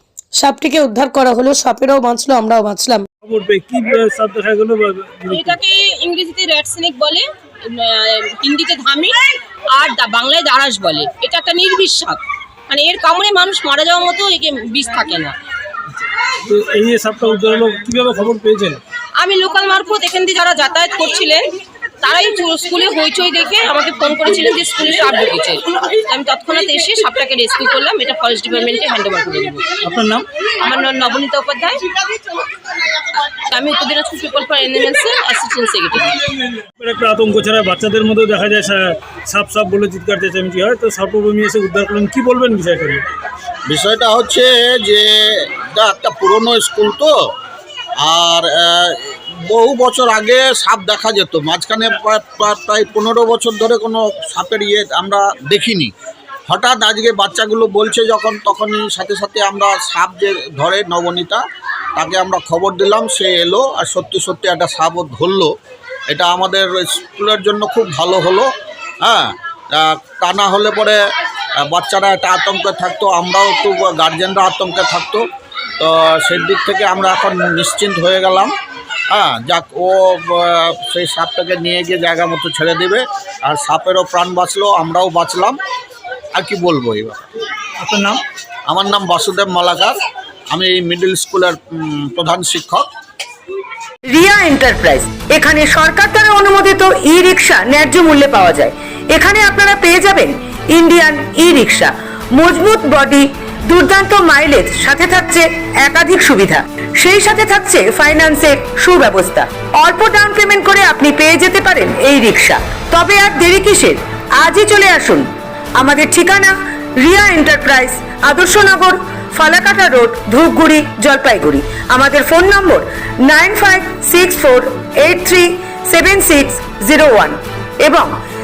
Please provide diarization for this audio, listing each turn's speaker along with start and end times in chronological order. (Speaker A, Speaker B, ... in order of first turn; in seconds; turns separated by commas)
Speaker A: 0.4-3.1, Speaker B: 3.2-5.6, Speaker C: 5.3-9.2, Speaker C: 9.7-15.4, Speaker B: 16.4-18.8, Speaker C: 19.2-21.5, Speaker C: 22.0-29.7, Speaker B: 29.8-30.2, Speaker C: 30.6-31.8, Speaker C: 33.4-36.2, Speaker B: 36.6-43.1, Speaker D: 43.7-47.1, Speaker D: 48.0-55.9, Speaker D: 56.5-61.4, Speaker D: 62.0-65.5, Speaker D: 66.1-68.5, Speaker D: 69.0-71.0, Speaker D: 71.6-75.2, Speaker D: 75.8-78.5, Speaker D: 79.1-85.6, Speaker D: 86.3-87.2, Speaker B: 87.8-88.2, Speaker D: 88.7-90.0, Speaker D: 90.5-92.9, Speaker E: 94.1-128.1